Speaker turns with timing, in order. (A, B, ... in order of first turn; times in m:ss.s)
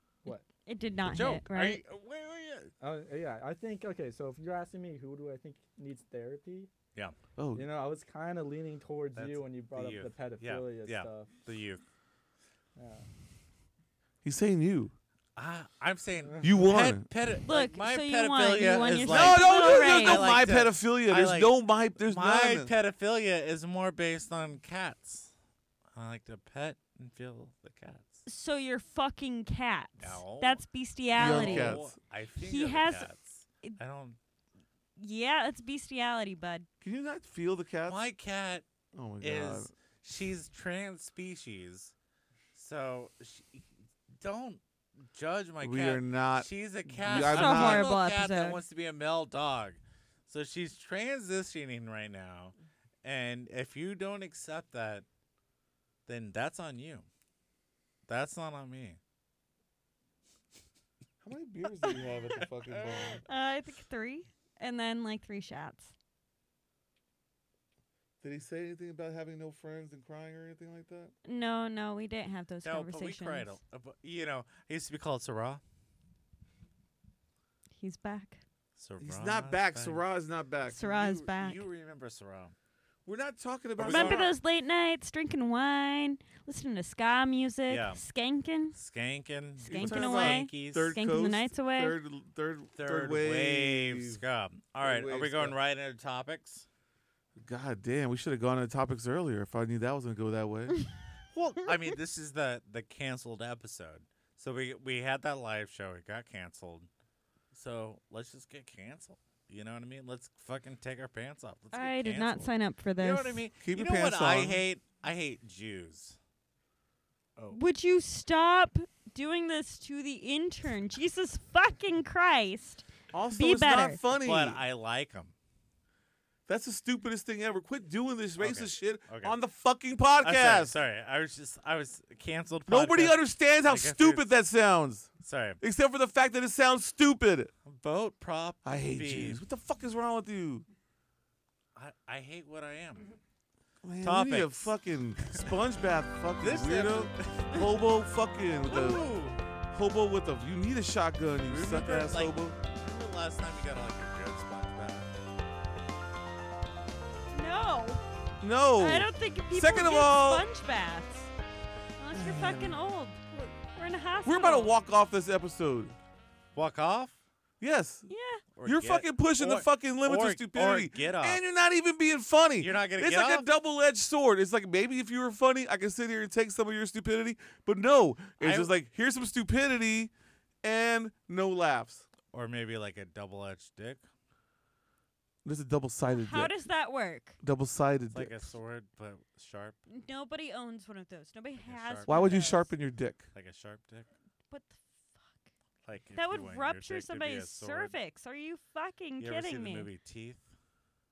0:00.7-0:01.8 A
0:01.1-0:02.7 B
0:02.8-0:06.7 C
0:07.4-0:07.7 D
0:07.6-0:11.3 C
0:09.2-0:11.8 B
0:12.8-0:13.1 C
0:14.2-0:14.9 D
0:15.4-0:25.3 B
0:16.4-0:17.1 D
0:17.4-0:20.3 A
0:19.1-0:22.7 D
0:26.0-0:28.2 B
0:28.3-0:31.8 A
0:30.0-0:30.6 B
0:31.1-0:34.2 B
0:31.2-0:32.0 D
0:32.4-0:33.1 A
0:35.0-0:36.7 A
0:36.8-0:38.0 D
0:37.9-0:38.7 B
0:38.9-0:39.7 D
0:39.2-0:41.9 B
0:42.5-0:43.6 B
0:44.2-0:55.1 B
0:45.6-0:47.9 D
0:47.1-0:48.6 A
0:56.1-0:57.1 B
0:58.1-0:59.0 B
1:01.2-1:03.2 D
1:02.6-1:03.2 B
1:03.2-1:05.9 A
1:08.2-1:11.1 D
1:11.2-1:13.6 A
1:12.6-1:15.6 B
1:17.7-1:18.4 A
1:18.8-1:20.0 B
1:19.0-1:21.2 D
1:20.7-1:21.6 A
1:20.9-1:22.6 B
1:23.1-1:24.3 D
1:23.8-1:24.3 B
1:23.9-1:28.8 A
1:27.7-1:28.0 B
1:28.7-1:31.0 B
1:29.6-1:32.0 A
1:29.7-1:34.2 D
1:32.8-1:36.7 B
1:34.8-1:35.6 D
1:37.4-1:40.8 D
1:41.3-1:46.9 B
1:47.5-1:56.2 B
1:51.7-1:53.4 A
1:53.6-1:54.6 D
1:57.5-2:04.0 A
2:03.1-2:04.6 D
2:04.1-2:05.3 B
2:06.5-2:10.8 D
2:08.4-2:09.4 B
2:10.2-2:14.3 B
2:12.7-2:15.1 D
2:15.2-2:15.6 B
2:15.6-2:17.5 D
2:17.6-2:19.4 B
2:18.6-2:20.7 D
2:21.8-2:23.2 B
2:23.8-2:29.1 D
2:24.0-2:25.6 B
2:26.4-2:27.9 B
2:28.6-2:29.4 B
2:29.7-2:32.6 D
2:31.5-2:35.1 B
2:37.3-2:38.0 A
2:38.4-2:40.5 D
2:38.8-2:41.3 A
2:42.0-2:44.7 A
2:42.1-2:42.8 D
2:44.2-2:46.0 D
2:46.6-2:47.2 B
2:47.6-2:48.1 D
2:48.1-2:48.4 A
2:48.6-2:51.4 B
2:48.6-3:00.1 D
2:52.6-2:53.5 B
2:58.4-2:58.7 B
3:00.6-3:02.1 D
3:02.3-3:04.0 B
3:05.4-3:06.5 D
3:06.1-3:07.4 A
3:07.4-3:08.5 D
3:08.1-3:09.8 B
3:09.9-3:12.7 A
3:11.6-3:12.2 B
3:12.1-3:13.3 D
3:13.3-3:14.1 B
3:14.5-3:15.5 A
3:15.8-3:18.0 B
3:16.1-3:19.9 A
3:19.2-3:20.5 B